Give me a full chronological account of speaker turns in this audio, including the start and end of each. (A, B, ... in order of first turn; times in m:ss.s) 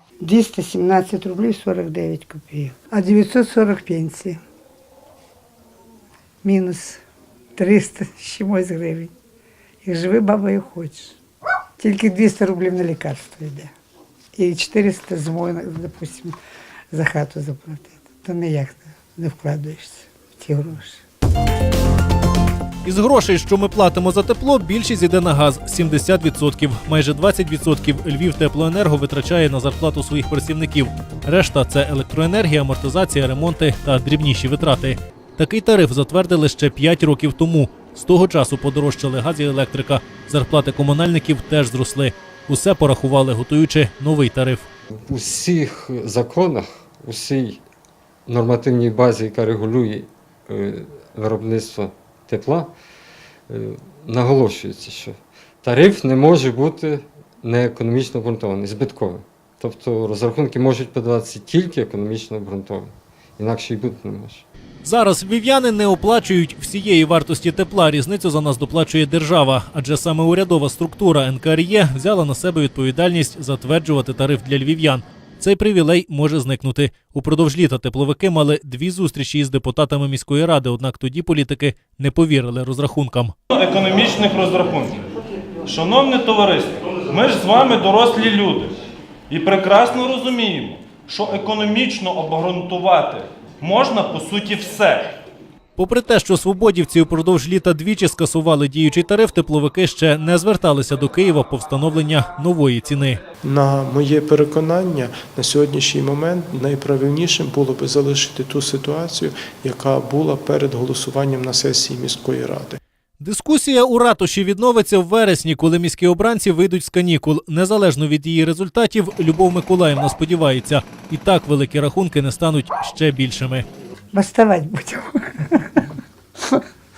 0:00.2-0:04.4 A
0:06.4-0:07.0 A
0:07.6-0:09.1 A
0:09.8-0:11.2 A
0:11.8-0:13.7 A
0:14.4-0:16.4 A
0:16.9-0:21.0 A
0:22.8-0:44.7 B
0:44.9-0:47.6 C
0:48.3-0:52.7 C
0:53.5-1:04.4 C
1:04.8-1:23.3 B
1:23.5-1:35.1 D
1:35.8-1:43.2 B
1:43.4-1:52.8 E
1:53.2-2:03.7 B
2:04.1-2:05.8 A